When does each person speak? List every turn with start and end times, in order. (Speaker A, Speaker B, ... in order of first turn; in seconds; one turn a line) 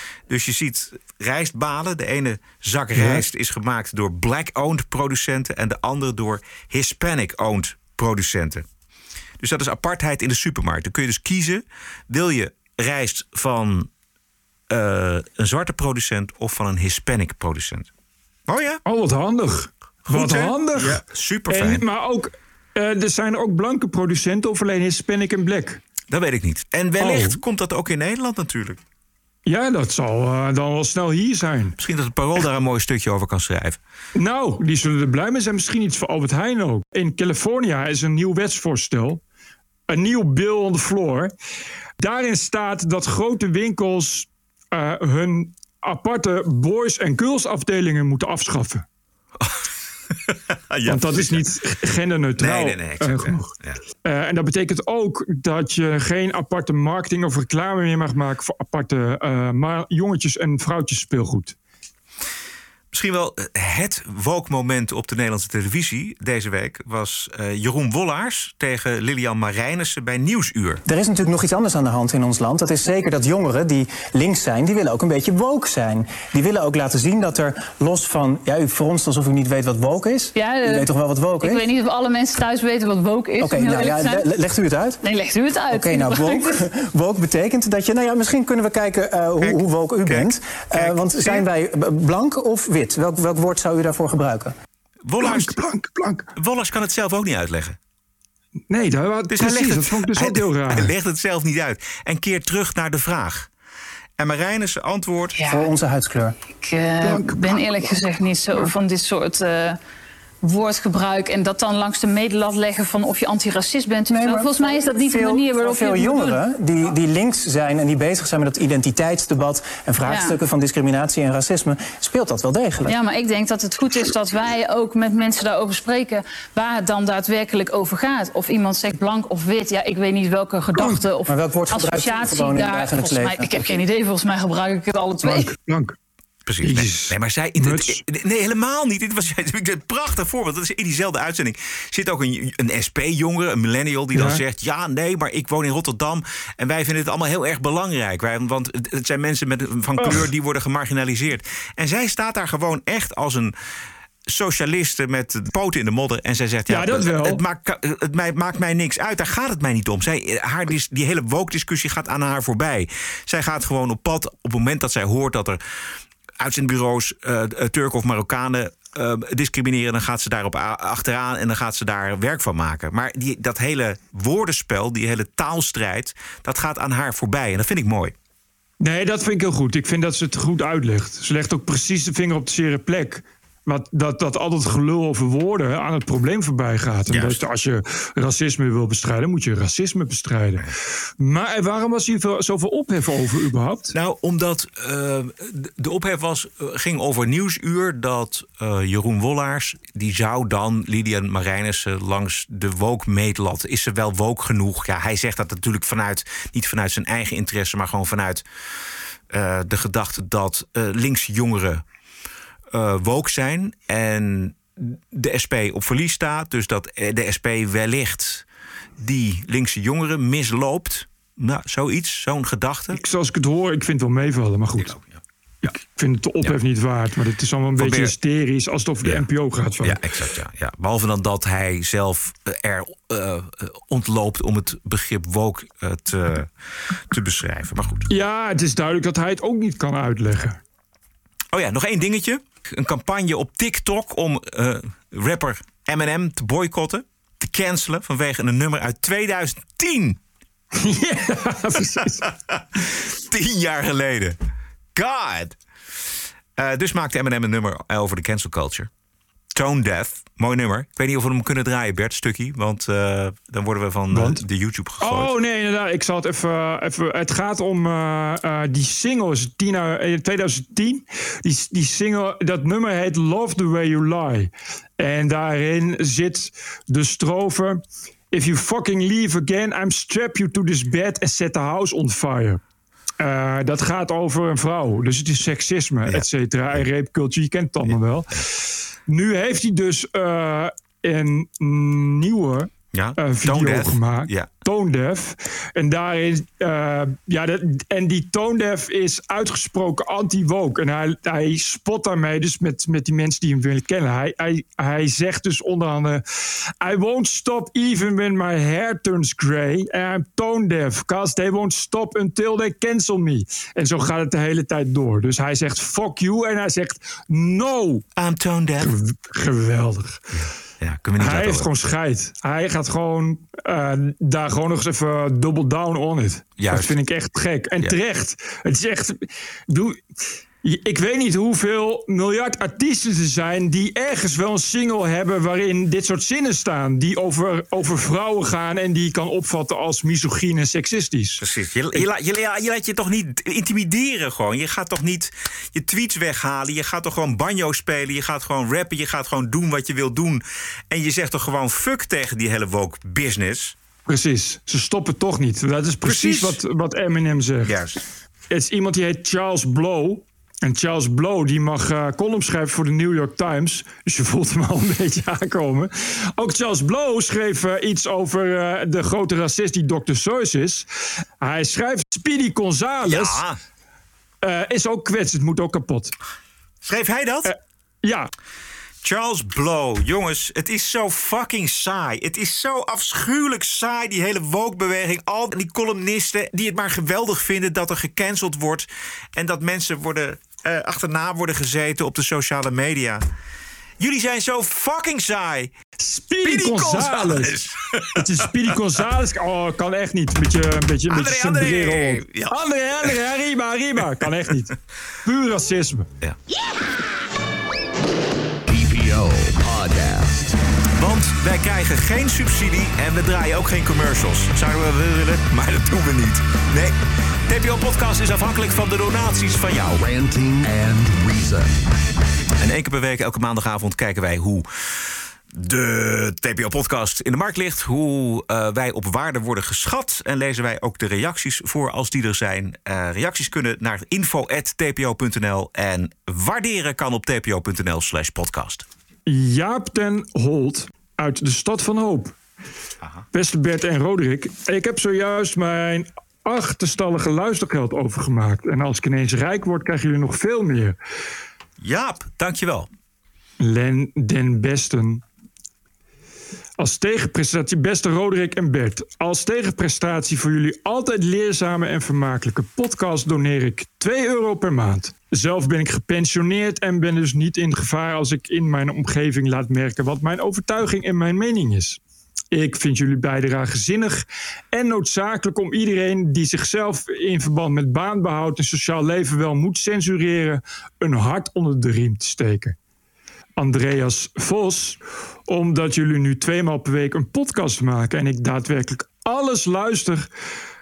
Speaker A: 0.3-8.7
Speaker A: 9.4-13.9
Speaker A: 14.7-17.9
Speaker A: 18.5-18.8
Speaker B: 18.9-25.8
Speaker A: 20.1-21.8
Speaker A: 26.1-28.8
Speaker B: 27.0-27.4
Speaker B: 29.5-31.8
Speaker A: 31.8-33.8
Speaker B: 34.1-39.2
Speaker B: 39.9-41.3
Speaker B: 42.0-48.9
Speaker A: 50.7-51.5
Speaker B: 50.9-61.5
Speaker A: 52.4-53.8
Speaker A: 62.9-70.8
Speaker C: 70.9-81.7
Speaker D: 80.4-84.3
Speaker C: 83.4-85.0
Speaker D: 85.0-86.6
Speaker C: 85.7-94.5
Speaker A: 89.4-91.5
Speaker A: 95.1-95.5
Speaker B: 95.2-96.3
Speaker A: 96.4-97.8
Speaker B: 98.7-100.9
Speaker A: 99.3-103.5
Speaker A: 104.2-105.4
Speaker D: 105.4-105.7
Speaker C: 105.5-106.4
Speaker D: 106.5-109.8
Speaker C: 107.0-107.8
Speaker D: 110.4-116.4
Speaker C: 114.1-122.9
Speaker D: 120.0-120.4
Speaker D: 122.8-135.5
Speaker B: 130.8-131.0
Speaker C: 131.3-133.7
Speaker B: 135.2-136.0
Speaker A: 136.5-153.5
Speaker B: 136.6-138.0
Speaker B: 144.1-144.4
Speaker B: 150.0-150.3
Speaker A: 154.3-165.6
Speaker B: 156.7-157.4
Speaker A: 166.4-178.1
Speaker B: 178.8-190.7
Speaker A: 187.1-187.4
Speaker B: 191.2-193.9
Speaker A: 193.9-208.4
Speaker A: 209.3-211.8
Speaker A: 212.7-218.4
Speaker A: 219.0-223.0
Speaker B: 222.9-224.9
Speaker A: 224.8-225.7
Speaker B: 225.7-230.0
Speaker A: 227.8-228.1
Speaker A: 229.8-236.5
Speaker A: 237.1-238.1
Speaker B: 238.1-240.6
Speaker A: 241.5-250.2
Speaker B: 250.8-252.3
Speaker A: 253.1-254.4
Speaker A: 254.9-255.6
Speaker A: 256.6-258.9
Speaker A: 259.6-265.3
Speaker B: 264.1-264.4
Speaker B: 265.0-277.8
Speaker B: 278.3-282.6
Speaker B: 283.2-306.2
Speaker A: 286.1-286.8
Speaker A: 287.9-288.4
Speaker A: 292.9-294.5
Speaker B: 306.8-318.0
Speaker A: 318.2-318.9
Speaker B: 318.8-320.2
Speaker A: 320.3-321.9
Speaker B: 321.2-330.0
Speaker A: 326.6-326.9
Speaker B: 330.6-341.4
Speaker A: 341.4-353.8
Speaker B: 354.1-357.8
Speaker A: 356.0-356.6
Speaker A: 357.6-358.0
Speaker B: 358.5-370.9
Speaker B: 371.4-373.4
Speaker A: 373.1-373.6
Speaker B: 374.4-376.1
Speaker A: 376.8-377.5
Speaker B: 377.5-378.3
Speaker A: 379.0-393.2
Speaker A: 394.0-395.7
Speaker B: 396.0-397.6
Speaker A: 396.4-398.2
Speaker B: 398.1-406.1
Speaker A: 401.1-402.5
Speaker E: 408.7-410.6
Speaker A: 411.0-416.9
Speaker A: 417.5-420.0
Speaker E: 420.0-421.8
Speaker A: 422.6-424.7
Speaker A: 425.5-438.8
Speaker B: 439.3-442.4
Speaker B: 443.3-451.0
Speaker A: 451.8-452.9
Speaker B: 453.6-455.2
Speaker B: 456.8-472.0
Speaker B: 472.5-482.8
Speaker B: 483.6-490.3